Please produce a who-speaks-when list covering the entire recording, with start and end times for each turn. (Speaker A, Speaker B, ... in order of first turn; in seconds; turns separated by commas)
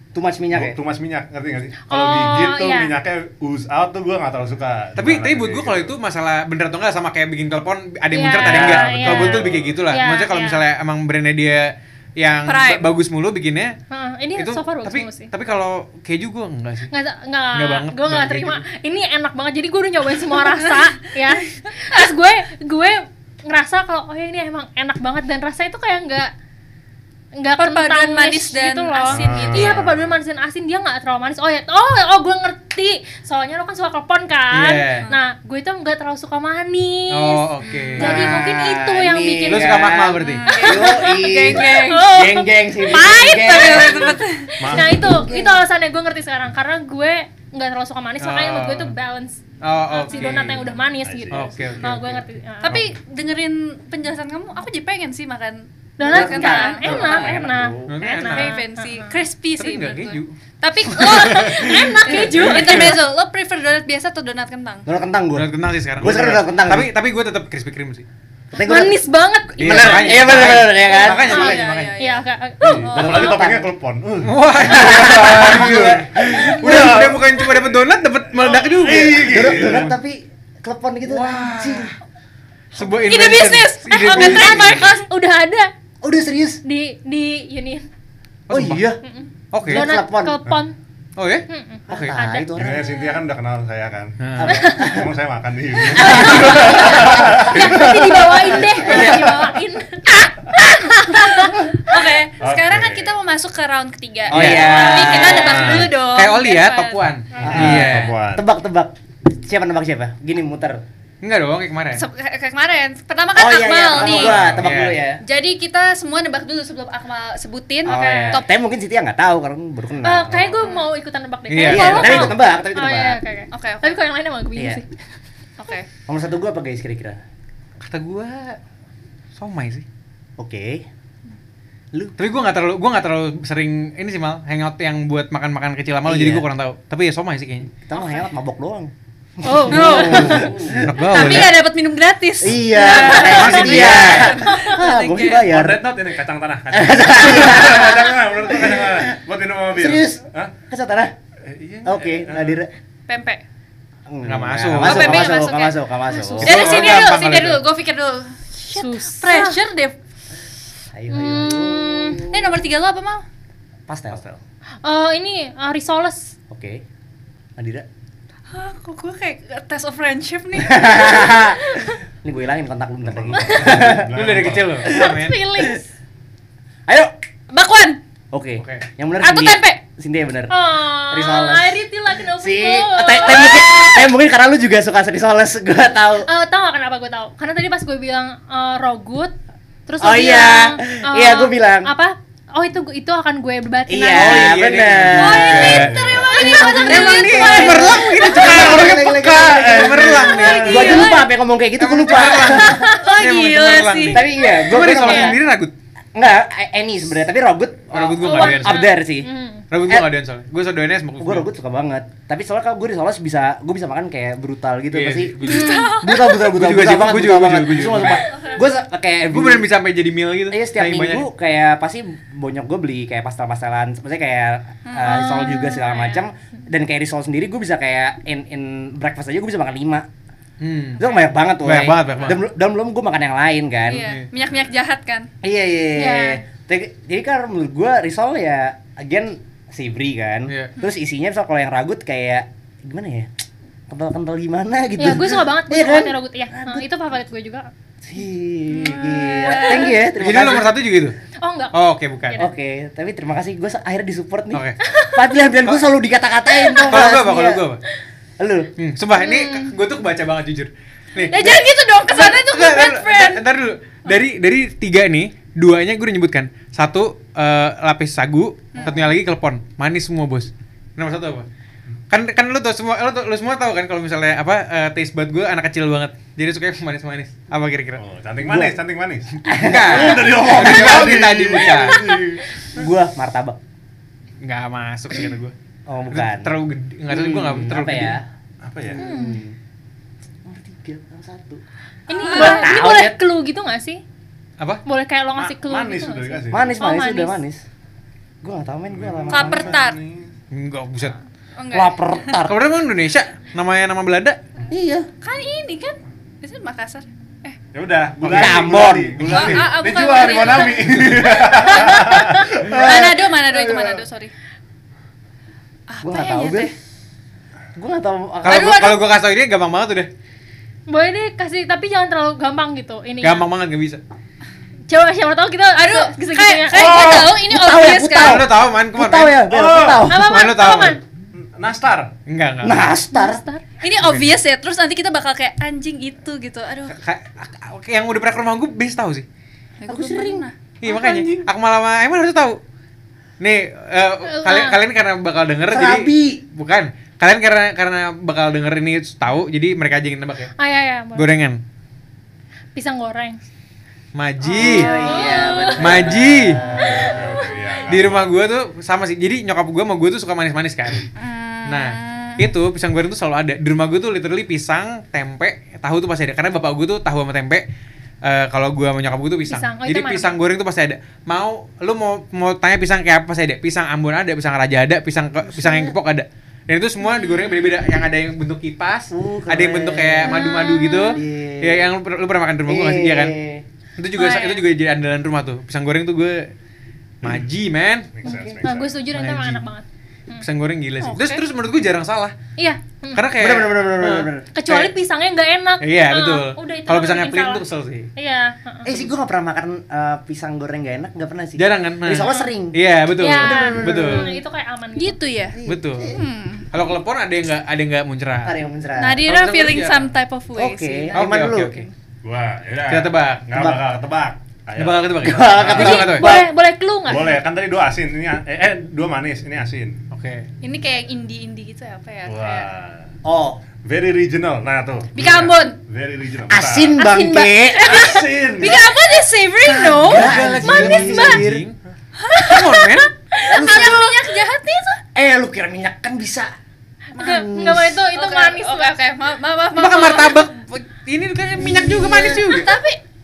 Speaker A: 0.1-0.8, Speaker B: 0.5-6.0, Speaker C: 1.9-2.9, Speaker D: 5.0-13.8, Speaker C: 8.1-10.6, Speaker B: 8.4-9.8, Speaker A: 8.4-8.8, Speaker E: 12.4-12.9, Speaker C: 13.9-15.3, Speaker D: 14.3-16.9, Speaker C: 16.9-26.3, Speaker D: 17.5-18.6, Speaker E: 20.5-20.8, Speaker C: 27.4-52.8, Speaker E: 27.6-29.8, Speaker B: 29.1-30.2, Speaker D: 34.5-35.1, Speaker D: 37.1-38.3, Speaker E: 37.6-38.1, Speaker A: 38.0-45.6, Speaker D: 39.5-40.5, Speaker E: 40.2-44.5, Speaker B: 44.6-45.2, Speaker D: 48.2-48.9, Speaker D: 49.6-50.7, Speaker E: 50.1-50.3, Speaker B: 50.4-52.0, Speaker D: 51.3-52.2, Speaker E: 52.6-57.4, Speaker B: 52.6-52.9, Speaker C: 56.0-59.2, Speaker A: 56.0-57.9, Speaker D: 57.9-58.6, Speaker E: 58.0-64.9, Speaker D: 59.6-60.3, Speaker D: 60.9-63.0, Speaker C: 61.0-63.0, Speaker A: 64.8-66.9, Speaker D: 65.3-68.0, Speaker B: 66.0-66.5, Speaker A: 68.5-69.0, Speaker C: 68.5-73.2, Speaker A: 69.6-71.6, Speaker D: 69.6-71.9, Speaker E: 70.5-73.4, Speaker B: 72.6-77.8, Speaker A: 72.9-73.7, Speaker D: 74.2-79.9, Speaker A: 74.6-77.2, Speaker B: 78.3-79.9, Speaker A: 78.8-81.9, Speaker D: 81.1-81.9, Speaker D: 82.7-84.8, Speaker E: 82.8-85.0, Speaker C: 84.0-85.7, Speaker A: 86.0-86.6, Speaker C: 86.6-87.8, Speaker D: 88.5-88.9, Speaker A: 88.5-89.0, Speaker C: 89.0-90.8, Speaker D: 89.5-89.9, Speaker A: 89.6-90.4, Speaker D: 91.2-92.2, Speaker C: 91.5-93.2, Speaker A: 91.9-92.9, Speaker B: 92.5-99.3, Speaker D: 94.2-94.6, Speaker A: 94.4-95.1, Speaker C: 94.4-95.0, Speaker A: 95.9-99.5, Speaker C: 95.9-101.7, Speaker E: 101.1-107.0, Speaker B: 102.4-103.1, Speaker A: 104.3-105.8, Speaker D: 104.3-105.3, Speaker B: 105.1-106.0, Speaker D: 106.0-108.1, Speaker A: 107.4-110.8, Speaker B: 107.4-108.4, Speaker D: 111.2-112.0, Speaker E: 111.9-114.5, Speaker A: 113.3-115.2, Speaker B: 113.9-114.7, Speaker D: 114.6-115.0, Speaker E: 115.2-118.4, Speaker A: 117.8-120.7, Speaker C: 117.9-118.3, Speaker C: 120.0-124.8, Speaker D: 121.5-122.4, Speaker A: 121.7-123.2, Speaker E: 123.5-124.0, Speaker A: 124.5-124.8, Speaker E: 125.6-125.9, Speaker A: 126.1-127.2, Speaker D: 127.8-128.6, Speaker D: 129.3-129.8, Speaker A: 130.4-130.8, Speaker D: 132.2-137.7, Speaker A: 136.1-136.4, Speaker A: 137.8-138.9, Speaker C: 137.9-138.2, Speaker C: 139.4-140.6, Speaker A: 139.4-141.4, Speaker E: 139.7-140.5, Speaker D: 139.8-141.6, Speaker E: 141.0-145.5, Speaker A: 142.4-145.9, Speaker D: 143.2-144.4, Speaker B: 145.3-150.6, Speaker A: 146.7-149.2, Speaker A: 149.7-151.1, Speaker B: 151.4-152.6, Speaker A: 151.8-152.7, Speaker E: 153.1-153.4, Speaker A: 154.1-156.6, Speaker D: 154.2-155.3, Speaker E: 154.8-155.8, Speaker C: 156.1-156.8, Speaker D: 156.4-157.6, Speaker E: 156.4-159.9, Speaker C: 158.7-159.6, Speaker A: 160.9-162.6, Speaker C: 161.1-162.2, Speaker E: 162.3-163.2, Speaker A: 163.9-164.2, Speaker C: 164.8-166.3, Speaker A: 166.5-166.8, Speaker A: 167.6-167.8, Speaker E: 168.5-171.9, Speaker A: 170.6-174.1, Speaker B: 173.0-174.9, Speaker D: 173.8-175.4, Speaker A: 174.8-175.8, Speaker C: 174.8-175.9, Speaker A: 176.9-177.1, Speaker E: 177.5-178.0, Speaker A: 178.3-181.8, Speaker D: 178.6-178.8, Speaker E: 179.2-179.8, Speaker C: 180.5-183.8, Speaker A: 182.3-186.3, Speaker E: 183.3-183.8, Speaker C: 186.2-189.3, Speaker C: 189.9-194.6, Speaker A: 190.0-191.9, Speaker A: 193.9-202.8, Speaker D: 194.1-196.0, Speaker C: 195.2-197.9, Speaker E: 195.2-198.6, Speaker B: 195.7-196.3, Speaker D: 196.9-201.0, Speaker B: 198.4-201.0, Speaker E: 200.3-201.3, Speaker C: 200.6-201.1, Speaker D: 201.8-205.7, Speaker E: 202.5-204.3, Speaker A: 204.1-205.4, Speaker C: 204.7-205.3, Speaker A: 206.1-209.3, Speaker D: 207.9-208.9, Speaker C: 208.2-209.7, Speaker E: 208.4-208.8, Speaker D: 209.7-211.4, Speaker A: 209.8-210.1, Speaker A: 211.2-219.7, Speaker D: 214.9-218.2, Speaker E: 215.4-216.4, Speaker C: 215.4-216.0, Speaker E: 218.0-218.6, Speaker D: 219.3-221.3, Speaker A: 220.5-230.1, Speaker E: 224.9-225.2, Speaker C: 225.0-226.2, Speaker D: 230.6-232.4, Speaker A: 231.0-234.1, Speaker E: 233.8-235.3, Speaker A: 235.4-243.3, Speaker C: 235.9-236.4, Speaker D: 240.5-240.7, Speaker A: 243.9-246.8, Speaker C: 245.0-247.7, Speaker A: 248.0-250.8, Speaker E: 248.7-249.9, Speaker C: 249.6-249.9, Speaker D: 250.1-251.1, Speaker C: 251.4-252.5, Speaker D: 251.7-252.4, Speaker A: 252.4-257.6, Speaker D: 254.5-254.8, Speaker C: 254.8-255.2, Speaker C: 256.5-256.9, Speaker D: 256.8-257.8, Speaker A: 258.4-258.7, Speaker D: 258.8-271.4, Speaker E: 261.2-263.4, Speaker D: 272.1-278.0, Speaker B: 278.0-282.9, Speaker A: 278.4-278.8, Speaker A: 279.4-281.4, Speaker D: 279.6-282.1, Speaker A: 282.7-283.6, Speaker D: 284.4-285.5, Speaker A: 285.9-286.5, Speaker D: 286.1-288.2, Speaker A: 287.1-288.2, Speaker B: 288.6-289.0, Speaker A: 288.9-289.6, Speaker C: 289.0-289.4, Speaker A: 290.4-291.6, Speaker C: 292.1-294.0, Speaker E: 292.1-292.8, Speaker A: 292.2-293.2, Speaker C: 294.9-297.4, Speaker B: 295.4-296.8, Speaker A: 296.5-297.6, Speaker A: 298.4-299.8, Speaker B: 298.9-300.3, Speaker E: 299.3-300.0, Speaker D: 300.5-301.1, Speaker E: 301.6-302.3, Speaker A: 301.7-302.6, Speaker D: 302.4-304.4, Speaker A: 304.7-305.1, Speaker E: 305.2-307.6, Speaker B: 307.7-314.0, Speaker A: 308.2-309.6, Speaker E: 309.2-314.3, Speaker A: 312.3-313.2, Speaker E: 315.9-316.7, Speaker A: 316.0-316.7, Speaker A: 317.7-318.8, Speaker D: 318.4-320.1, Speaker E: 318.5-319.1, Speaker C: 320.9-323.5, Speaker D: 323.2-324.0, Speaker C: 324.9-327.1, Speaker E: 325.7-328.4, Speaker A: 326.7-330.6, Speaker B: 327.0-327.3, Speaker D: 328.2-329.4, Speaker B: 329.4-330.1, Speaker C: 330.1-331.0, Speaker D: 330.2-331.0, Speaker B: 331.3-332.1, Speaker D: 332.3-332.9, Speaker A: 332.6-333.4, Speaker C: 333.1-333.6, Speaker E: 333.8-336.9, Speaker D: 334.0-334.3, Speaker D: 336.9-339.2, Speaker E: 339.8-340.5, Speaker A: 339.9-340.4, Speaker D: 340.8-342.6, Speaker D: 343.4-350.5, Speaker C: 344.3-344.8, Speaker A: 345.7-346.4, Speaker C: 350.6-351.3, Speaker D: 351.1-351.6, Speaker C: 352.7-353.4, Speaker D: 354.1-354.9, Speaker E: 354.4-356.0, Speaker A: 354.5-357.3, Speaker C: 354.7-356.1, Speaker D: 355.8-356.6, Speaker B: 356.6-358.4, Speaker C: 356.7-357.5, Speaker D: 357.9-361.1, Speaker E: 361.1-362.4, Speaker D: 361.6-367.6, Speaker D: 368.2-383.4, Speaker C: 369.5-370.4, Speaker A: 375.5-375.9, Speaker A: 379.1-380.5, Speaker C: 380.2-381.2, Speaker A: 381.1-381.9, Speaker A: 382.6-383.6, Speaker D: 384.0-386.5, Speaker E: 384.1-384.6, Speaker D: 387.2-388.1, Speaker B: 388.1-389.0, Speaker A: 388.2-388.6, Speaker C: 388.2-390.4, Speaker D: 389.1-389.6, Speaker D: 390.4-392.3, Speaker E: 391.0-391.4, Speaker C: 392.6-393.2, Speaker D: 393.1-394.9, Speaker A: 393.4-394.5, Speaker C: 394.5-397.6, Speaker D: 395.8-398.1, Speaker C: 398.1-398.9, Speaker A: 398.8-402.8, Speaker D: 401.6-404.4, Speaker C: 403.1-405.2, Speaker A: 403.3-404.3, Speaker E: 405.0-405.6, Speaker A: 405.5-406.2, Speaker D: 405.6-406.1, Speaker E: 406.1-406.7, Speaker D: 406.7-408.6, Speaker A: 408.4-409.2, Speaker E: 408.9-411.1, Speaker D: 409.2-410.1, Speaker A: 410.6-411.9, Speaker D: 411.1-411.9, Speaker B: 412.2-416.1, Speaker D: 412.9-413.6, Speaker A: 413.5-413.8, Speaker D: 414.8-416.4, Speaker A: 415.2-416.5, Speaker C: 415.7-417.4, Speaker B: 417.1-420.0, Speaker D: 420.1-420.5, Speaker E: 420.6-422.7, Speaker B: 422.2-423.1, Speaker A: 423.2-423.6, Speaker B: 423.8-426.9, Speaker E: 425.1-425.8, Speaker A: 426.5-428.1, Speaker C: 427.0-427.5, Speaker E: 427.7-431.4, Speaker B: 427.8-428.9, Speaker A: 429.6-431.6, Speaker D: 430.1-431.8, Speaker E: 432.2-435.0, Speaker D: 432.4-433.1, Speaker A: 433.5-434.1, Speaker A: 435.1-436.5, Speaker E: 437.1-437.5, Speaker C: 437.2-438.9, Speaker A: 437.2-438.0, Speaker E: 438.1-440.4, Speaker D: 439.7-442.8, Speaker E: 442.1-443.0